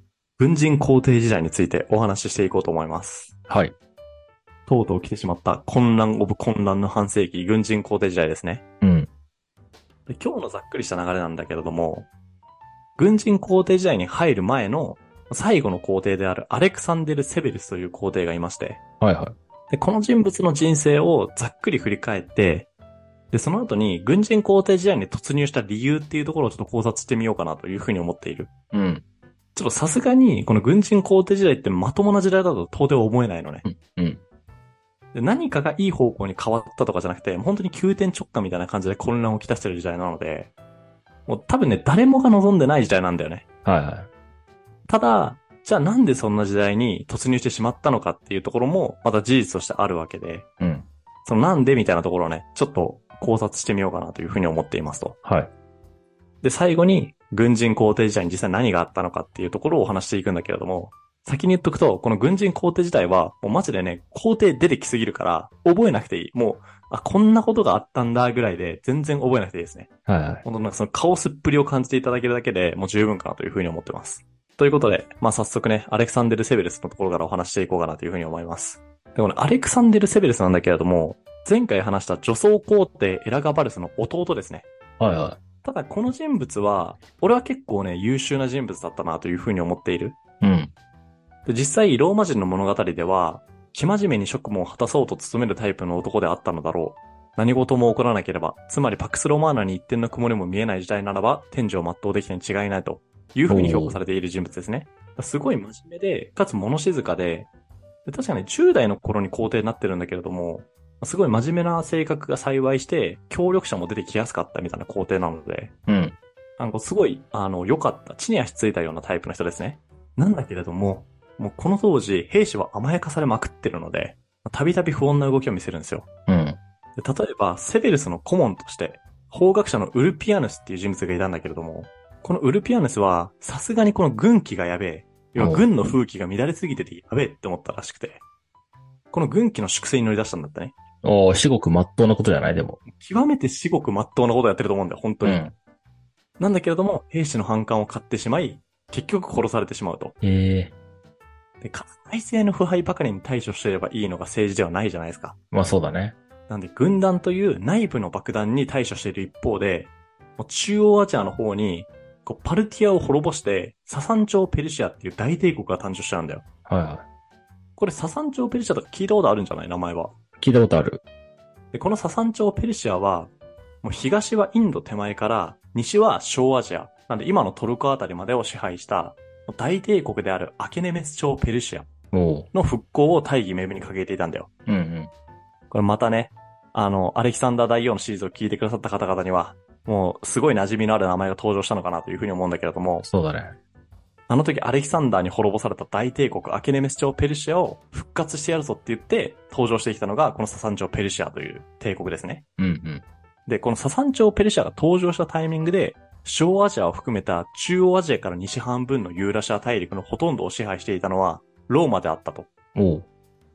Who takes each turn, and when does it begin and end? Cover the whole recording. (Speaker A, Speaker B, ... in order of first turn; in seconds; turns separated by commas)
Speaker A: 0.4-3.3, Speaker B: 3.5-3.7, Speaker A: 4.7-8.6, Speaker B: 8.8-9.1, Speaker A: 10.1-12.1, Speaker A: 13.0-18.8, Speaker B: 19.0-19.3, Speaker A: 19.7-22.7, Speaker A: 23.3-28.5, Speaker B: 28.7-29.0, Speaker A: 29.5-33.6, Speaker B: 33.6-34.2, Speaker A: 35.1-40.5, Speaker A: 41.3-43.4, Speaker B: 43.6-44.1, Speaker A: 44.9-50.5, Speaker B: 50.6-50.9, Speaker A: 51.2-55.2, Speaker B: 55.2-55.5, Speaker A: 56.4-69.9, Speaker B: 70.0-70.4, Speaker A: 70.4-84.6, Speaker B: 85.0-85.4, Speaker A: 85.6-90.2, Speaker B: 90.4-90.7, Speaker A: 91.5-107.5, Speaker B: 103.5-104.0, Speaker A: 108.0-115.7, Speaker B: 115.9-116.2, Speaker A: 116.6-126.0, Speaker B: 126.3-126.6, Speaker A: 127.0-138.2, Speaker B: 135.4-135.7, Speaker A: 139.1-140.7, Speaker B: 141.0-142.8, Speaker A: 142.8-145.5, Speaker B: 145.2-145.5, Speaker A: 146.4-150.1, Speaker B: 150.2-150.7, Speaker A: 151.6-155.3, Speaker B: 155.5-156.1, Speaker A: 156.5-166.4, Speaker B: 166.7-167.0, Speaker A: 167.8-170.1, Speaker B: 170.4-171.0, Speaker A: 171.7-173.3, Speaker A: 173.8-181.9, Speaker B: 182.1-182.5, Speaker A: 182.5-184.5, Speaker B: 184.7-185.1, Speaker A: 185.7-193.1, Speaker B: 193.0-193.6, Speaker A: 194.3-202.4, Speaker B: 202.6-203.0, Speaker A: 203.4-212.5, Speaker B: 212.7-213.1